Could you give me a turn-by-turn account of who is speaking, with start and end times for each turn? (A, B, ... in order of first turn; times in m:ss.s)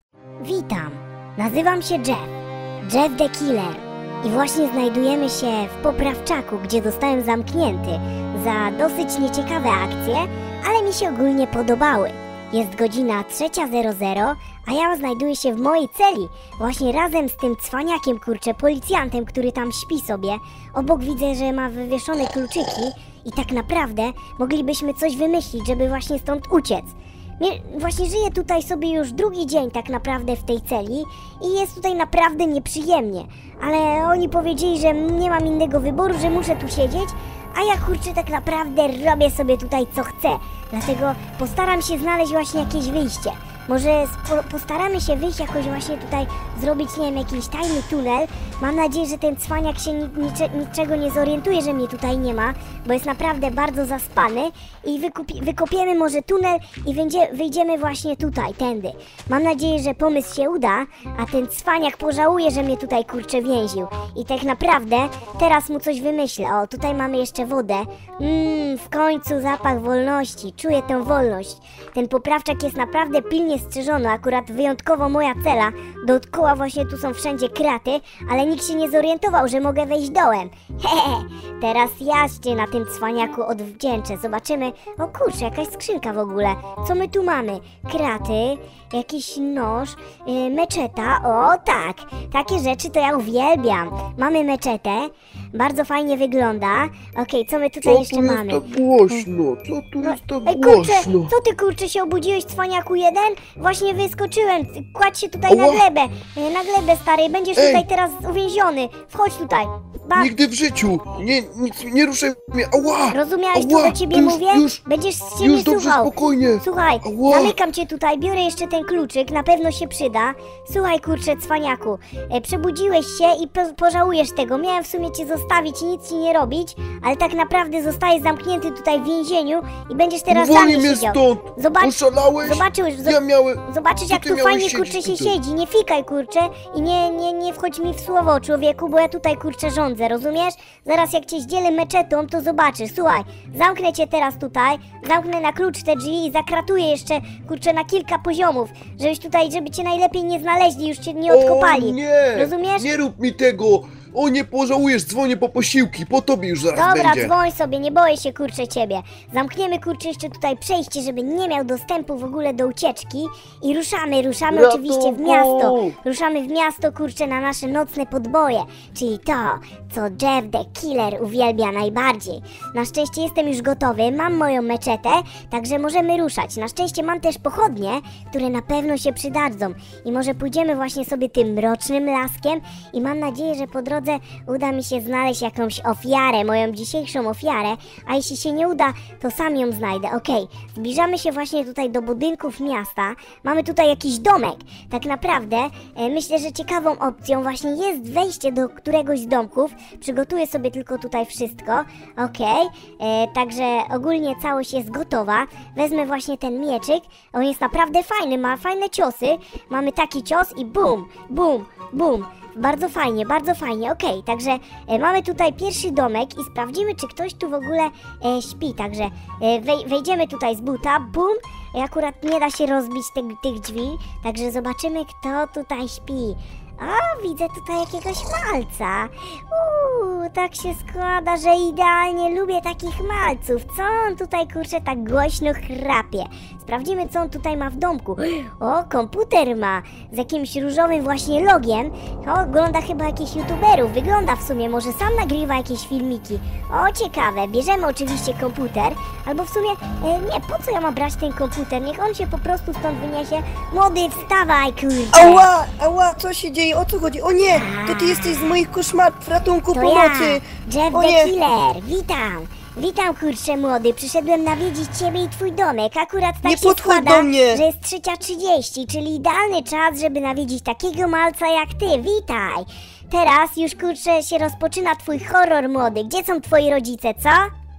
0:00.4-0:02.3 A
0:02.8-1:39.2 A
1:37.8-1:41.3 B
1:40.0-1:50.3 A
1:45.5-1:45.8 B
1:47.6-1:47.8 B
1:50.2-1:54.8 B
1:53.1-2:32.9 A
1:55.4-1:57.6 B
2:10.3-2:15.4 B
2:31.3-2:37.3 B
2:36.7-4:15.5 A
2:44.5-2:46.0 B
4:15.1-4:21.3 C
4:17.5-4:18.6 A
4:19.7-4:37.5 A
4:26.4-4:27.6 C